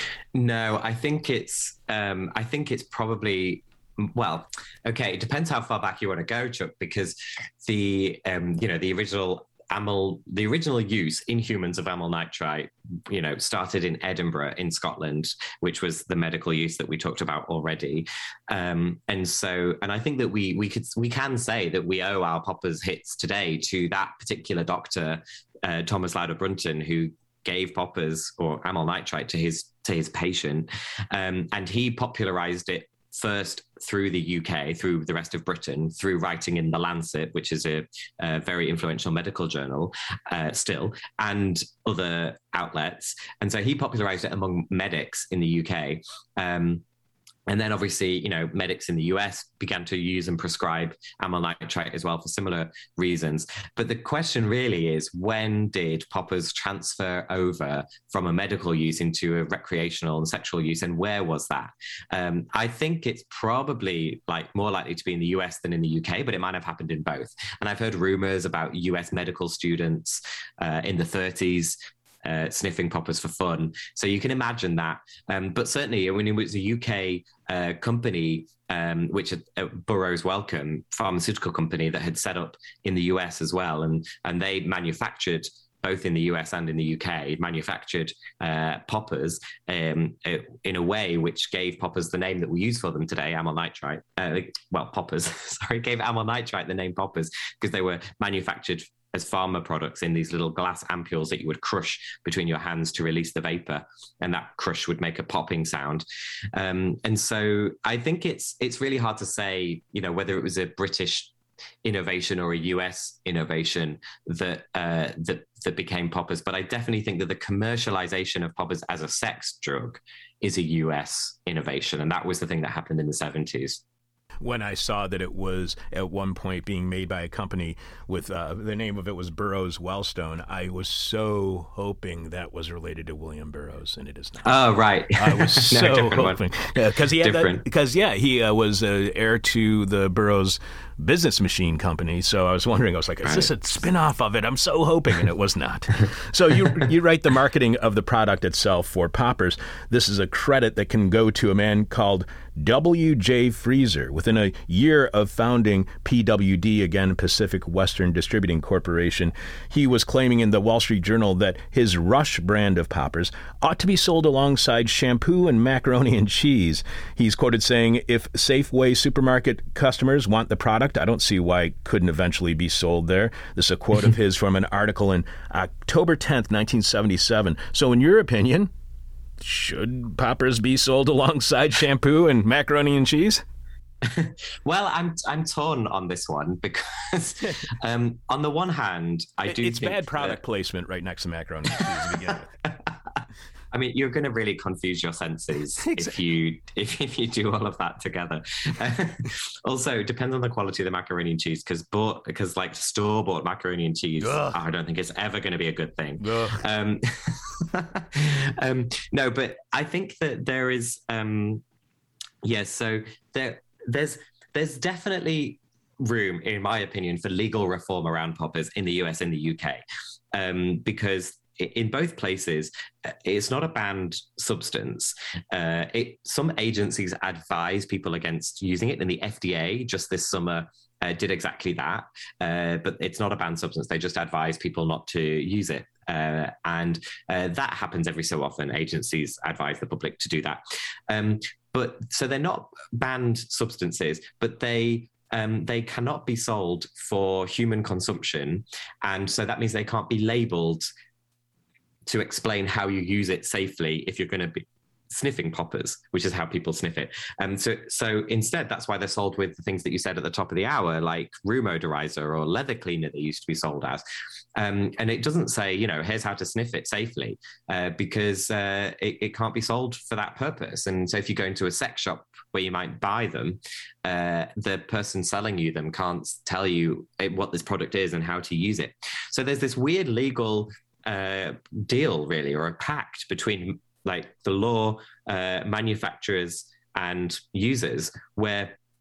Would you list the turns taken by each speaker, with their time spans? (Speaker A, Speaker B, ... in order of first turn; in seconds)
Speaker A: 0.3-46.8, 47.5-111.3, 111.8-123.8, 134.4-136.4, 137.2-137.6, 184.0-190.4, 193.7-211.6, 212.4-219.8, 220.3-250.9, 252.1-264.0, 264.6-288.8
Speaker B: 124.4-134.6, 135.1-178.7, 179.4-183.4, 189.5-192.6, 195.8-196.1, 204.2-204.6, 206.2-206.6